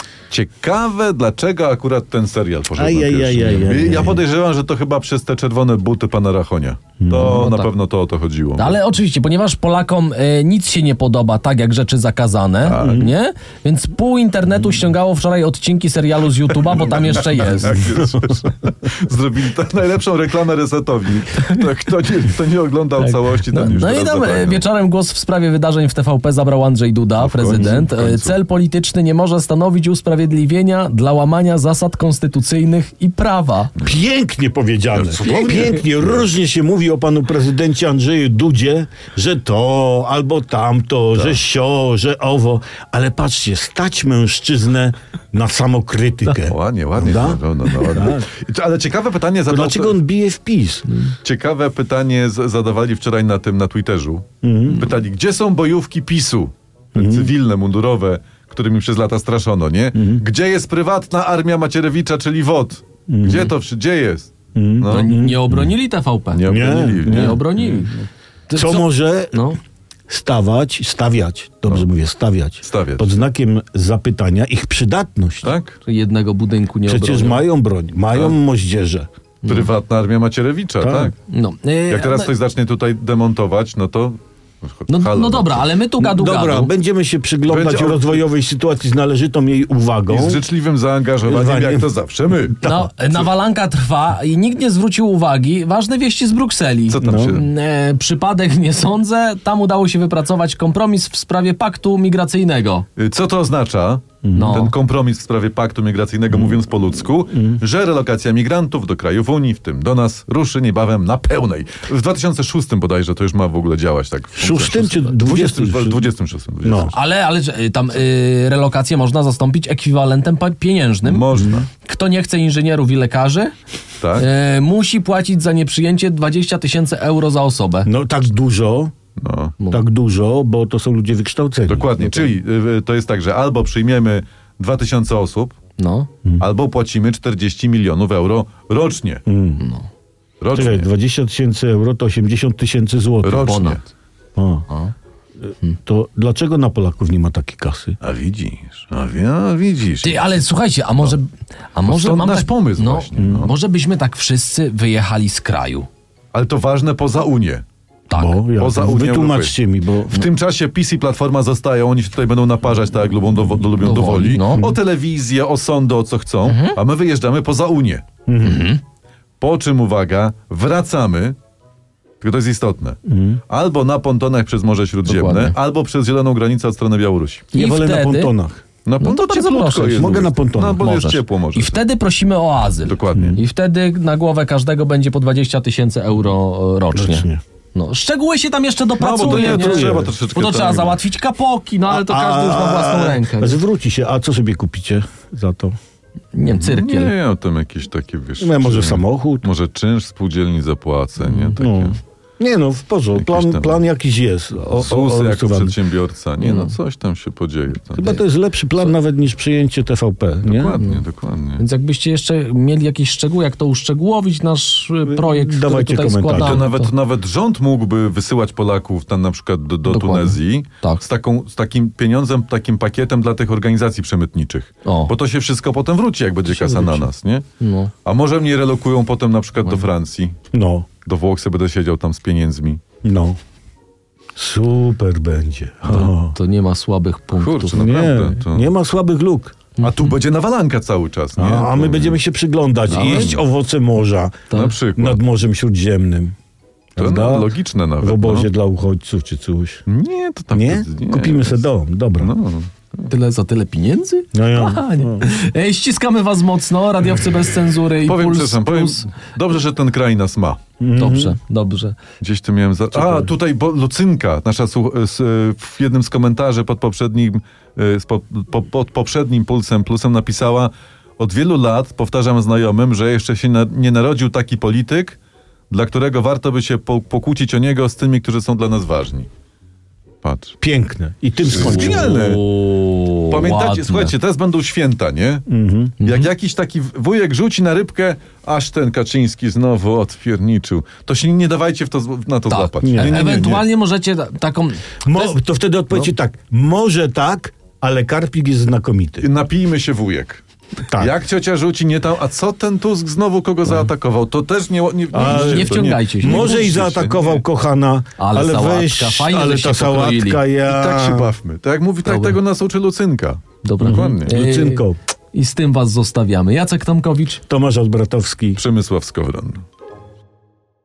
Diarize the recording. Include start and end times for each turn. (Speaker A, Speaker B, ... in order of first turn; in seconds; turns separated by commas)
Speaker A: 0.3-8.8, Speaker B: 2.8-4.2, Speaker B: 7.0-7.4, Speaker C: 7.1-7.7, Speaker C: 8.6-17.9, Speaker A: 12.6-13.1, Speaker B: 12.8-13.1, Speaker A: 16.5-24.6, Speaker B: 17.6-18.3, Speaker C: 23.0-33.7, Speaker A: 27.2-28.4, Speaker B: 27.5-27.9, Speaker B: 33.8-48.3, Speaker A: 34.9-36.3, Speaker A: 41.1-41.4, Speaker A: 46.4-50.0, Speaker B: 49.5-51.1, Speaker A: 51.2-65.1, Speaker B: 54.4-54.9, Speaker B: 56.9-57.3, Speaker B: 59.9-60.2, Speaker B: 63.1-63.5, Speaker B: 64.5-65.7, Speaker C: 64.9-68.0, Speaker A: 66.3-67.5, Speaker B: 66.5-67.9, Speaker C: 68.5-69.6, Speaker B: 68.5-69.4, Speaker B: 70.1-75.5, Speaker A: 72.6-73.2, Speaker A: 75.4-75.8, Speaker C: 75.8-77.4, Speaker B: 76.8-79.1, Speaker C: 79.4-79.7, Speaker A: 79.5-81.1, Speaker B: 80.8-81.1, Speaker C: 81.3-82.3, Speaker A: 81.9-85.7, Speaker C: 84.9-86.7, Speaker B: 86.0-90.4, Speaker A: 87.4-88.2, Speaker A: 90.1-92.6, Speaker B: 91.2-91.9, Speaker B: 92.5-92.9, Speaker C: 92.6-102.8, Speaker A: 96.9-97.5, Speaker B: 97.0-97.4, Speaker A: 103.0-117.0, Speaker B: 104.2-104.6, Speaker C: 104.3-104.7, Speaker B: 106.3-106.6, Speaker B: 107.3-107.6, Speaker B: 114.4-116.1, Speaker B: 116.6-116.9, Speaker C: 116.9-123.5, Speaker A: 121.0-121.7, Speaker A: 124.0-124.3, Speaker C: 124.1-127.9, Speaker B: 127.8-128.9, Speaker A: 129.2-129.6, Speaker C: 129.6-129.8, Speaker B: 129.7-132.2, Speaker A: 131.7-135.6, Speaker C: 135.8-136.1, Speaker A: 136.4-139.2, Speaker B: 139.3-139.6, Speaker C: 139.6-139.9, Speaker A: 140.4-140.9, Speaker B: 140.5-143.6, Speaker A: 143.2-143.8, Speaker C: 143.3-143.8, Speaker B: 144.3-144.6, Speaker B: 145.7-148.0, Speaker A: 148.0-150.2, Speaker C: 150.0-155.9, Speaker A: 151.8-153.5, Speaker B: 153.2-153.5, Speaker A: 156.3-157.6, Speaker C: 158.1-158.4, Speaker B: 158.1-160.3, Speaker A: 158.5-159.6, Speaker A: 160.1-168.0, Speaker C: 163.8-164.7, Speaker C: 166.4-166.8, Speaker B: 168.2-168.7, Speaker C: 168.4-168.8, Speaker A: 169.4-171.3, Speaker A: 172.2-173.0, Speaker B: 173.1-173.4, Speaker A: 173.5-177.5, Speaker C: 175.1-175.5, Speaker C: 177.5-178.3, Speaker B: 177.5-178.6, Speaker A: 178.8-181.8, Speaker C: 179.0-193.6, Speaker B: 180.0-180.8, Speaker A: 182.8-183.4, Speaker B: 183.1-183.4, Speaker B: 186.9-187.4, Speaker A: 189.0-191.0, Speaker B: 189.1-190.1, Speaker B: 191.9-195.7, Speaker C: 196.3-197.1, Speaker A: 196.5-202.0, Speaker B: 198.4-199.5, Speaker C: 201.2-201.6, Speaker B: 201.6-205.8, Speaker A: 203.1-203.8, Speaker A: 204.7-208.2, Speaker C: 206.4-206.7, Speaker B: 207.9-210.8, Speaker A: 210.4-211.6, Speaker C: 210.8-211.0, Speaker C: 211.6-216.9, Speaker B: 215.1-216.7, Speaker A: 216.4-227.4, Speaker C: 219.8-221.0, Speaker C: 224.8-225.1, Speaker C: 226.5-227.1, Speaker C: 227.6-227.9, Speaker A: 228.0-230.3, Speaker B: 230.5-230.9, Speaker A: 231.0-232.8, Speaker B: 233.0-233.4, Speaker B: 234.3-236.3, Speaker C: 235.9-237.9, Speaker A: 237.3-238.7, Speaker B: 237.7-239.6, Speaker C: 239.8-240.2, Speaker A: 239.8-242.2, Speaker B: 241.3-246.3, Speaker A: 242.9-243.4, Speaker C: 242.9-243.4, Speaker C: 244.5-244.8, Speaker A: 244.5-245.2, Speaker B: 246.9-249.8, Speaker A: 247.0-248.5, Speaker A: 249.9-251.6, Speaker B: 250.5-252.3, Speaker A: 252.2-252.7, Speaker C: 253.1-259.1, Speaker B: 254.3-255.3, Speaker A: 258.0-260.6, Speaker B: 260.8-261.4, Speaker C: 260.9-262.0, Speaker A: 262.2-275.2, Speaker A: 275.7-279.3, Speaker A: 280.2-280.6, Speaker B: 280.6-282.2, Speaker A: 281.4-282.4, Speaker C: 281.5-284.1, Speaker A: 283.3-285.4, Speaker B: 285.5-285.9, Speaker C: 286.0-286.3, Speaker A: 286.0-293.7, Speaker C: 292.5-295.3, Speaker B: 292.8-293.6, Speaker B: 295.0-299.2, Speaker A: 299.2-307.4, Speaker B: 300.9-301.1, Speaker B: 305.1-311.3, Speaker C: 305.2-306.6, Speaker C: 308.2-310.4, Speaker A: 310.6-314.4, Speaker C: 312.0-312.4, Speaker C: 313.6-317.4, Speaker B: 313.8-315.0, Speaker B: 317.5-318.6, Speaker A: 318.6-319.6